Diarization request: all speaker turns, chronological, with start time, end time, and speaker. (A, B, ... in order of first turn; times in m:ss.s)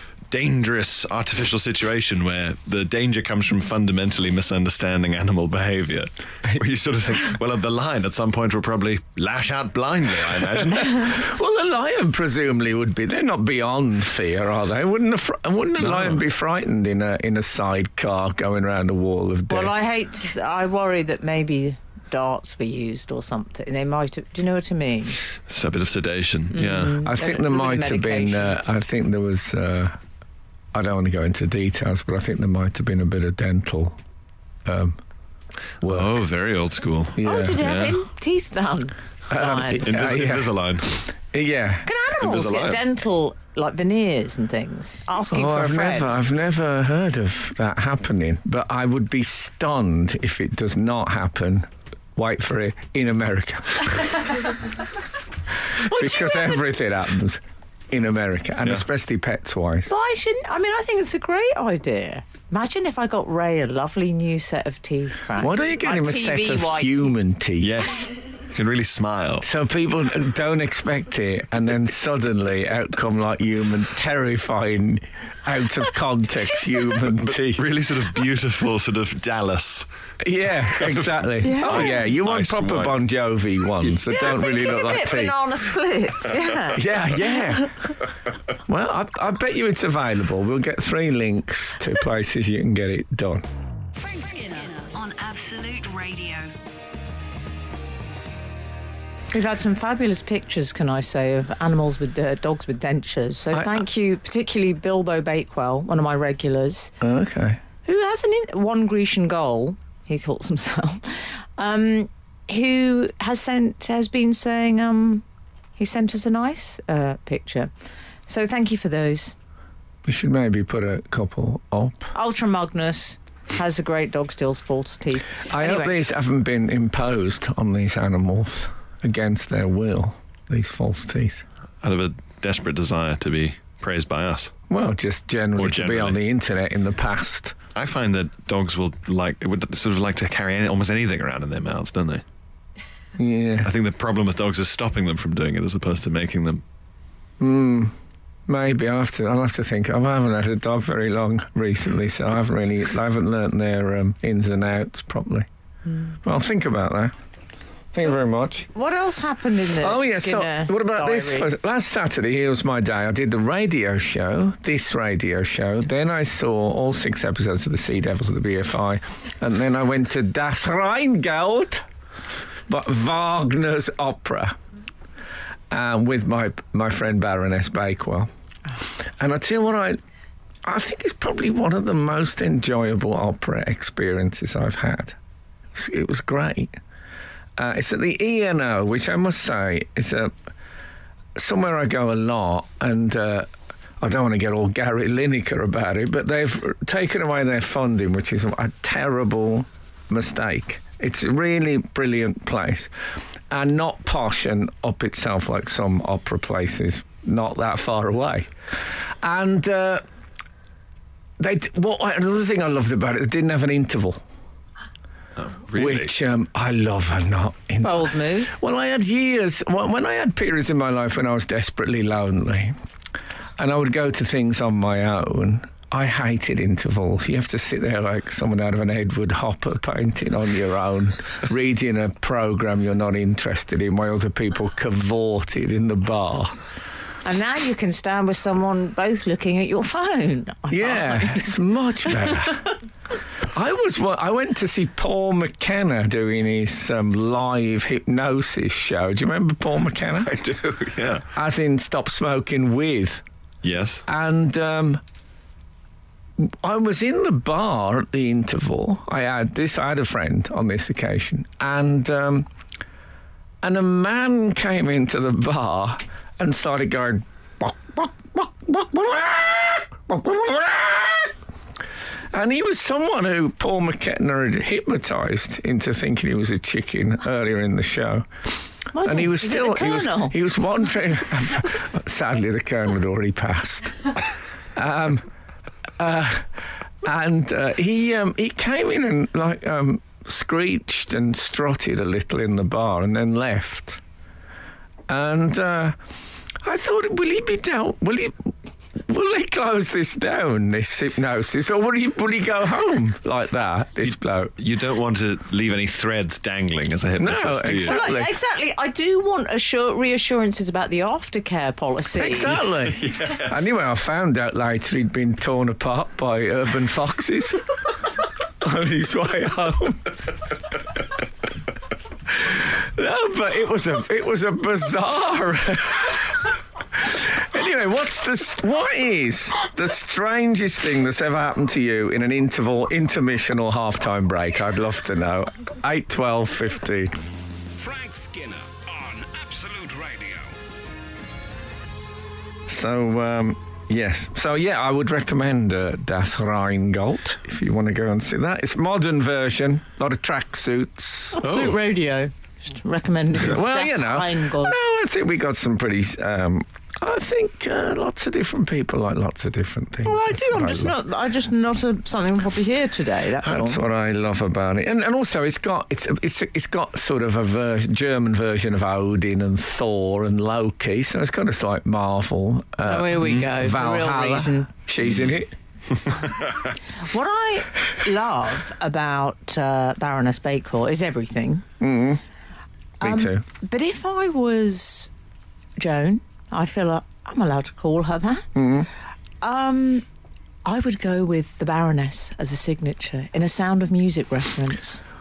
0:00.3-0:11.2 A
0:10.5-0:19.7 B
0:15.8-0:16.2 A
0:19.5-0:25.2 C
0:25.5-0:27.0 A
0:26.5-0:28.6 C
0:27.0-0:30.0 B
0:30.7-0:34.0 B
0:34.6-0:35.0 B
0:35.8-0:36.2 B
0:35.8-0:38.0 A
0:37.2-0:37.6 B
0:37.2-0:39.9 C
0:39.3-0:40.6 B
0:39.9-0:40.9 A
0:41.2-0:41.9 B
0:41.8-0:46.1 C
0:42.2-0:42.8 A
0:45.3-0:54.3 B
0:55.7-0:59.9 B
0:55.8-0:56.6 C
0:59.9-1:07.2 C
1:05.4-1:07.9 B
1:07.6-1:09.5 A
1:09.4-1:17.7 B
1:17.4-1:19.9 A
1:20.2-1:25.4 B
1:20.7-1:23.0 A
1:21.4-1:22.0 C
1:24.1-1:27.0 C
1:26.7-1:27.7 B
1:28.7-1:33.4 B
1:33.9-1:36.5 D
1:39.3-1:46.9 C
1:43.5-1:43.8 B
1:47.0-1:47.6 B
1:47.8-1:55.2 C
1:55.8-1:57.7 C
1:58.3-1:59.3 C
2:00.0-2:02.1 B
2:02.1-2:06.0 C
2:05.5-2:11.4 B
2:11.8-2:14.5 A
2:14.7-2:17.6 B
2:15.6-2:16.2 A
2:17.8-2:22.2 A
2:23.2-2:23.7 B
2:23.6-2:26.6 A
2:27.4-2:27.9 B
2:28.5-2:35.5 B
2:36.2-2:37.1 B
2:37.9-2:38.7 B
2:38.7-2:41.5 C
2:39.8-2:51.8 B
2:52.7-2:54.6 B
2:55.7-2:58.3 B
2:59.2-3:00.0 B
3:00.6-3:05.2 B
3:05.7-3:06.7 B
3:07.6-3:10.4 B
3:11.4-3:13.5 B
3:14.0-3:22.9 B
3:23.5-3:28.5 B
3:29.2-3:30.0 B
3:31.4-3:34.2 B
3:35.4-3:36.1 A
3:35.8-3:42.7 B
3:37.8-3:38.5 C
3:43.6-3:56.6 B
3:57.2-4:01.6 C
4:00.7-4:02.7 B
4:02.1-4:02.5 C
4:03.5-4:10.3 B
4:10.2-4:11.3 A
4:11.3-4:13.2 B
4:13.6-4:14.0 A
4:14.1-4:15.0 B
4:16.4-4:22.5 B
4:23.6-4:31.4 B
4:32.3-4:38.3 B
4:38.9-4:40.4 C
4:39.0-4:44.1 B
4:44.8-4:45.3 B
4:46.0-4:54.0 B
4:55.1-4:56.0 B
4:56.6-5:04.5 B
5:04.6-5:08.0 A
5:07.2-5:08.3 B
5:07.8-5:12.6 C
5:12.1-5:17.6 B
5:12.9-5:13.6 A
5:18.6-5:20.2 B
5:22.3-5:37.2 B
5:37.7-5:40.6 E
5:42.7-5:51.4 B
5:51.3-5:54.8 C
5:51.4-5:51.7 A
5:53.4-6:00.9 B
6:00.0-6:03.8 C
6:03.4-6:15.5 B
6:12.9-6:14.7 C
6:15.0-6:15.3 A
6:17.0-6:21.6 C
6:21.8-6:22.2 B
6:23.0-6:25.1 C
6:23.0-6:23.4 B
6:25.8-6:28.5 C
6:28.6-6:28.9 B
6:29.4-6:30.0 C
6:30.6-6:35.0 C